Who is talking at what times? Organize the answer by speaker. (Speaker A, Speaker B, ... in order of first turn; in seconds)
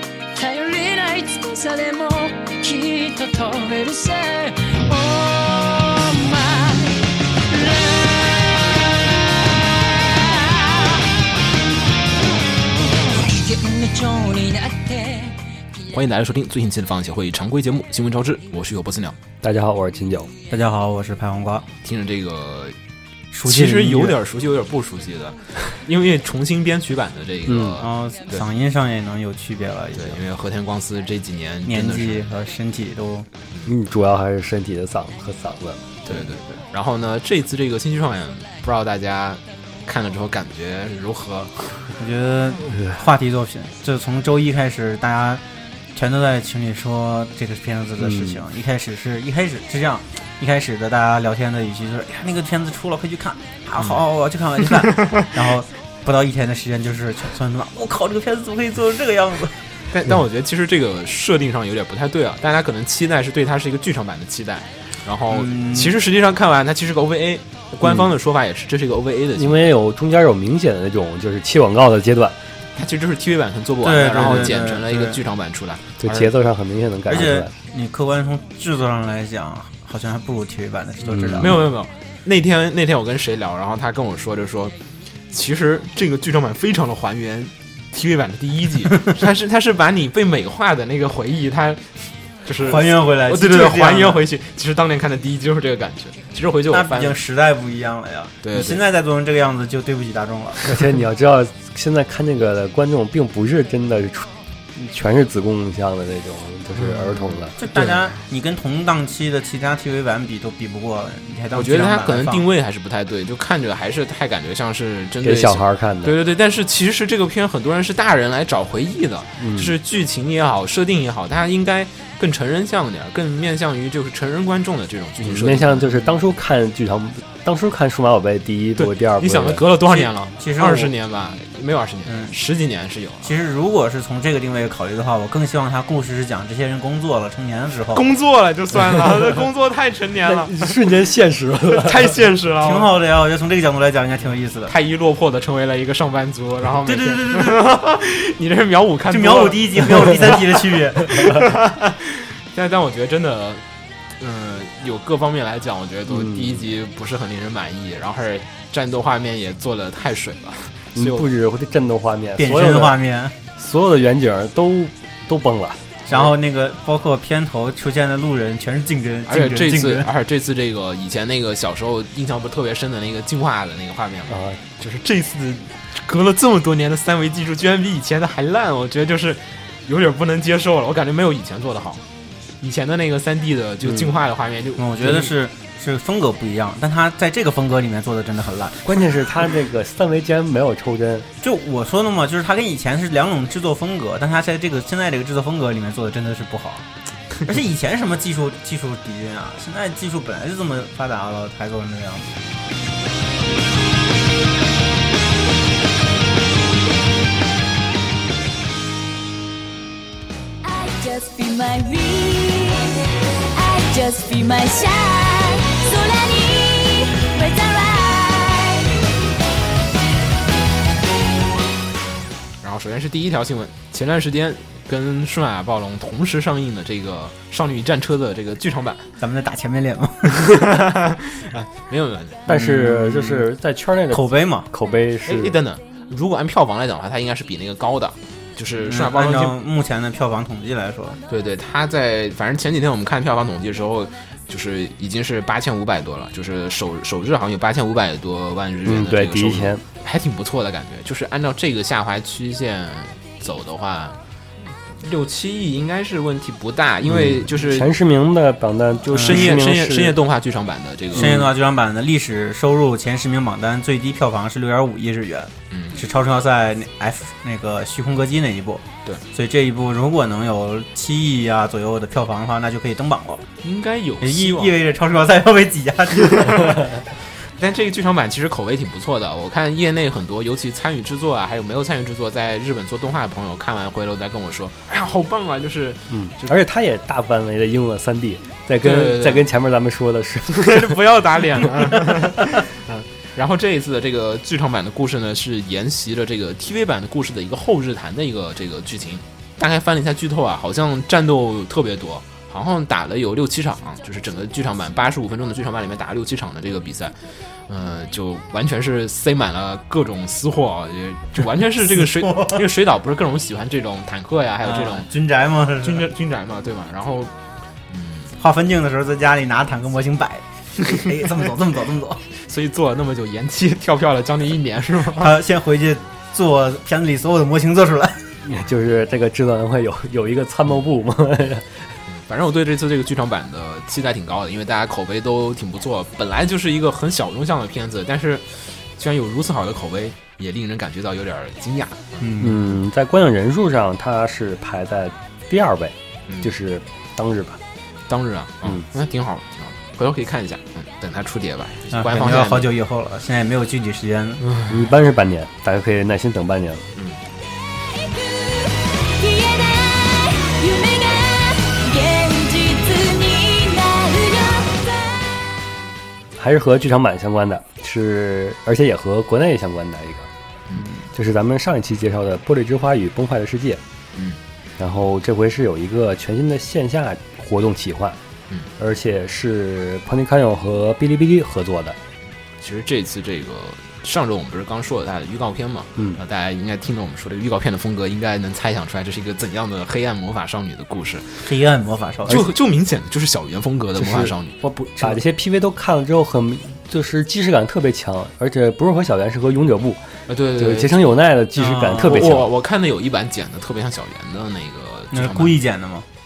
Speaker A: 0.3-8.7, 9.7-11.0, 12.8-15.8
Speaker B: 15.9-19.2, 21.8-22.8, 23.4-28.4, 29.9-32.3, 36.0-42.0, 54.8-55.4, 59.9-69.6, 72.8-76.3, 81.3-84.8, 85.3-97.2, 98.4-98.8, 106.8-107.5, 111.5-126.0, 128.8-133.3, 137.9-140.7, 141.7-142.9, 144.7-153.6, 154.2-161.3, 169.2-182.0, 182.6-185.3, 222.6-229.1, 230.3-232.4, 234.9-239.6, 241.3-254.2, 254.8-257.9, 259.1-261.4, 265.7-266.0, 273.6-274.8, 276.3-286.6, 288.8-289.5, 290.5-315.1, 315.8-317.3, 317.9-318.4, 322.4-325.4, 332.1-342.2, 348.1-352.7, 354.5-354.8, 356.9-357.2, 374.1-374.4, 382.6-391.5, 392.2-395.2, 400.3-401.0, 402.0-405.6
Speaker C: 19.4-20.3, 27.4-27.8, 33.6-35.9, 48.0-48.4, 67.8-68.1, 69.3-72.4, 76.0-77.5, 81.1-81.5, 100.7-107.9, 115.2-116.2, 119.4-119.8, 125.2-129.6, 140.2-142.1, 156.1-156.6, 160.9-162.9, 163.6-166.0, 174.3-174.6, 183.8-184.1, 188.8-191.3, 232.5-235.6, 248.8-249.8, 257.1-260.1, 261.1-261.5, 286.1-290.9, 328.4-332.0, 342.4-347.6, 354.7-356.9, 366.4-370.3, 371.1-373.8, 374.8-378.2, 378.8-382.0, 394.0-402.5
Speaker D: 20.5-21.7, 23.3-24.2, 27.8-30.2, 31.6-33.3, 42.0-45.4, 46.0-59.6, 65.3-66.0, 73.8-75.2, 77.1-81.6, 92.6-94.2, 96.7-100.7, 107.6-112.5, 129.8-130.9, 132.1-132.3, 133.2-138.0, 142.6-144.7, 146.8-147.6, 149.1-151.3, 162.4-163.3, 166.1-170.1, 184.8-189.1, 191.4-196.8, 197.4-202.3, 229.2-230.5, 232.5-233.4, 234.1-234.7, 238.8-241.2, 259.1-259.6, 261.2-273.4, 274.2-277.0, 312.0-312.6, 314.6-316.1, 318.4-322.2, 325.1-328.2, 342.2-342.6, 351.9-354.4, 391.4-392.4, 401.6-402.4, 405.1-406.1
Speaker E: 210.6-213.0, 213.5-219.0, 357.9-365.2